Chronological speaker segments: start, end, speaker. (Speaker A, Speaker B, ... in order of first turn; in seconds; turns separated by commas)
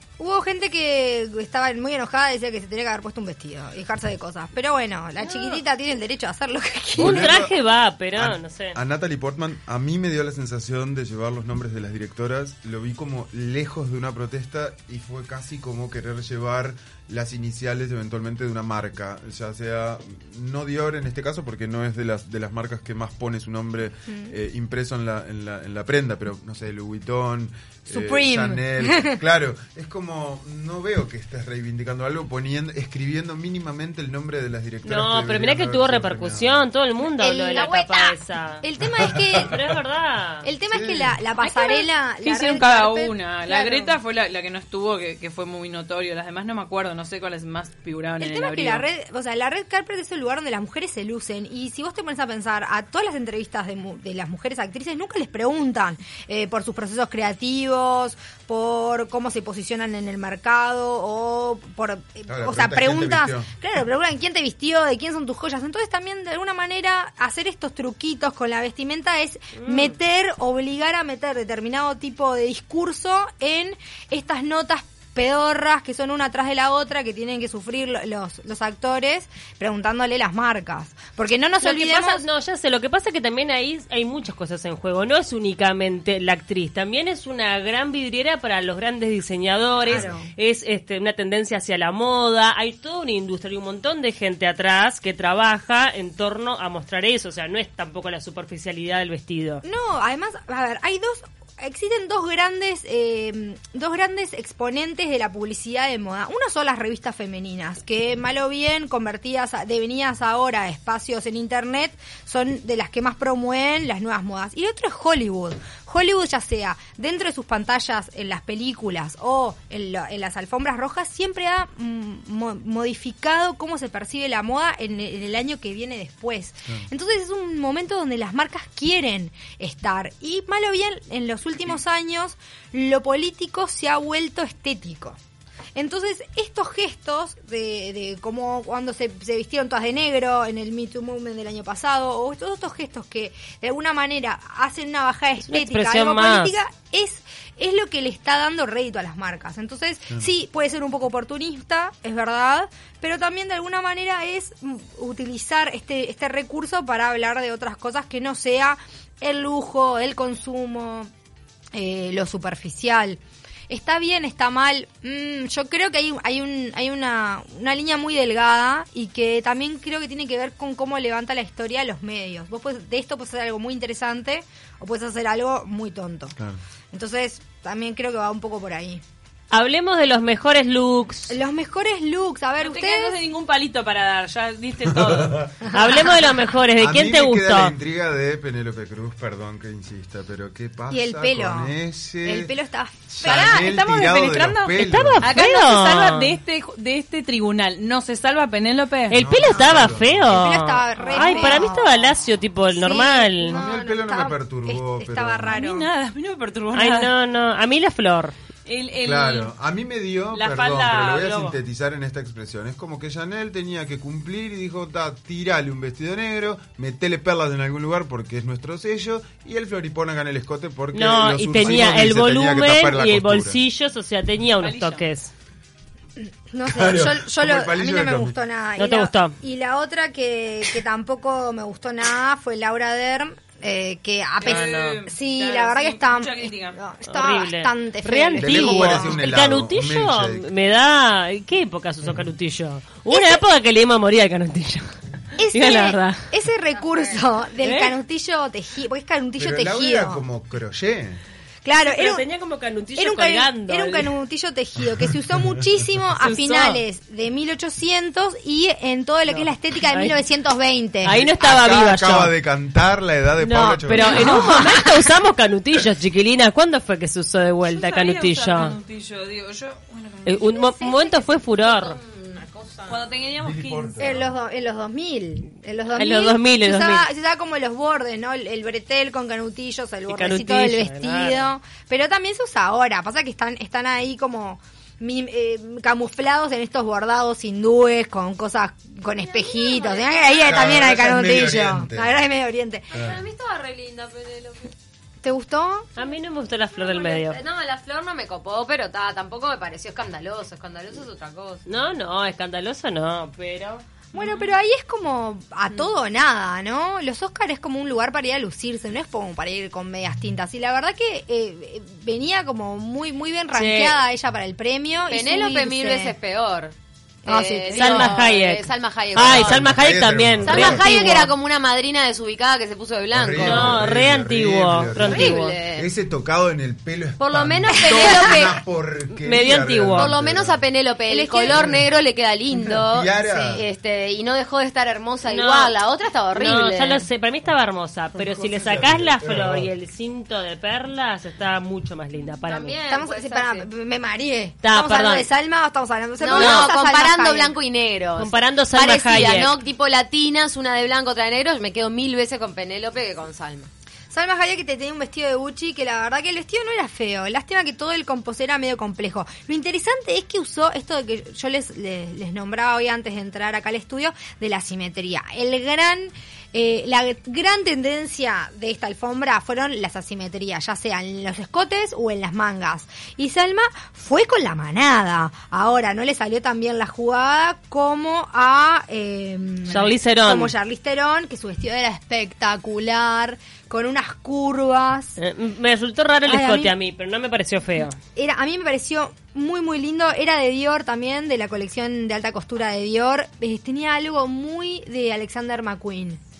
Speaker A: 0.2-7.4, Speaker B: 5.2-5.6, Speaker C: 7.0-7.5, Speaker B: 7.0-8.8, Speaker C: 8.2-36.6, Speaker A: 27.9-29.2, Speaker B: 34.8-38.6, Speaker A: 37.1-39.6, Speaker D: 37.5-37.9, Speaker C: 39.0-39.7, Speaker B: 39.3-40.5, Speaker A: 40.4-44.0, Speaker C: 40.7-41.2, Speaker E: 41.4-48.8, Speaker A: 48.2-82.2, Speaker C: 62.3-63.5, Speaker B: 69.6-69.9, Speaker B: 81.6-99.6, Speaker A: 89.8-90.3, Speaker A: 99.6-135.2, Speaker A: 135.7-161.1, Speaker B: 145.5-146.6, Speaker A: 161.7-176.3, Speaker A: 176.9-179.0, Speaker B: 179.5-181.4, Speaker A: 181.3-183.2, Speaker E: 182.6-185.6, Speaker C: 184.9-185.5, Speaker B: 185.7-187.7, Speaker C: 186.8-192.5, Speaker A: 190.9-191.7, Speaker A: 192.2-193.7, Speaker C: 193.1-195.3, Speaker E: 193.2-199.2, Speaker B: 194.8-196.3, Speaker B: 199.1-203.6, Speaker C: 199.1-200.4, Speaker A: 200.3-202.1, Speaker E: 201.1-201.6, Speaker A: 202.7-205.9, Speaker C: 203.4-205.6, Speaker E: 205.5-207.1, Speaker B: 206.7-208.3, Speaker E: 208.7-209.5, Speaker C: 209.0-223.6, Speaker E: 210.3-211.6, Speaker B: 220.9-225.3, Speaker E: 224.6-225.0, Speaker A: 226.2-239.2, Speaker C: 226.7-228.3, Speaker B: 228.8-229.3, Speaker E: 234.4-236.8, Speaker B: 234.4-235.0, Speaker B: 237.1-244.9, Speaker C: 238.4-240.5, Speaker A: 243.1-243.4, Speaker A: 245.4-250.2, Speaker B: 245.5-246.2, Speaker B: 247.6-247.9, Speaker C: 249.4-251.2, Speaker A: 251.6-252.2, Speaker B: 251.8-254.1, Speaker A: 252.9-261.1, Speaker B: 256.2-256.8, Speaker B: 259.3-260.2, Speaker B: 261.0-262.3, Speaker C: 261.1-264.3, Speaker B: 263.4-268.8, Speaker A: 264.0-264.9, Speaker E: 267.6-270.6, Speaker B: 270.2-272.0, Speaker D: 270.6-273.2, Speaker E: 272.9-274.1, Speaker C: 273.4-274.3, Speaker A: 274.0-293.0, Speaker B: 275.9-277.1, Speaker B: 280.1-281.5, Speaker D: 289.2-290.8, Speaker C: 290.4-292.2, Speaker D: 292.9-294.7, Speaker C: 292.9-293.2, Speaker A: 295.2-295.9, Speaker B: 296.0-297.4, Speaker D: 296.7-301.6, Speaker B: 301.7-303.8, Speaker A: 304.1-316.1, Speaker B: 313.5-314.0, Speaker D: 315.1-316.7, Speaker A: 317.2-318.2, Speaker D: 317.2-319.7, Speaker B: 317.7-321.3, Speaker C: 319.1-320.9, Speaker D: 320.4-323.8, Speaker C: 323.1-330.6, Speaker B: 323.4-325.6, Speaker D: 324.9-325.9, Speaker D: 327.2-328.6, Speaker A: 327.9-328.2, Speaker B: 329.2-330.1, Speaker D: 329.9-337.0, Speaker A: 331.1-331.7, Speaker C: 331.5-331.8, Speaker C: 332.9-333.6, Speaker B: 335.3-335.7, Speaker B: 336.3-342.8, Speaker C: 338.2-339.7, Speaker D: 342.4-343.6, Speaker A: 342.9-347.6, Speaker B: 344.6-345.3, Speaker D: 346.2-353.7, Speaker B: 346.3-346.7, Speaker B: 348.2-349.6, Speaker A: 354.1-385.1, Speaker B: 379.6-380.5, Speaker B: 385.2-388.0, Speaker A: 386.2-386.7, Speaker A: 388.1-396.2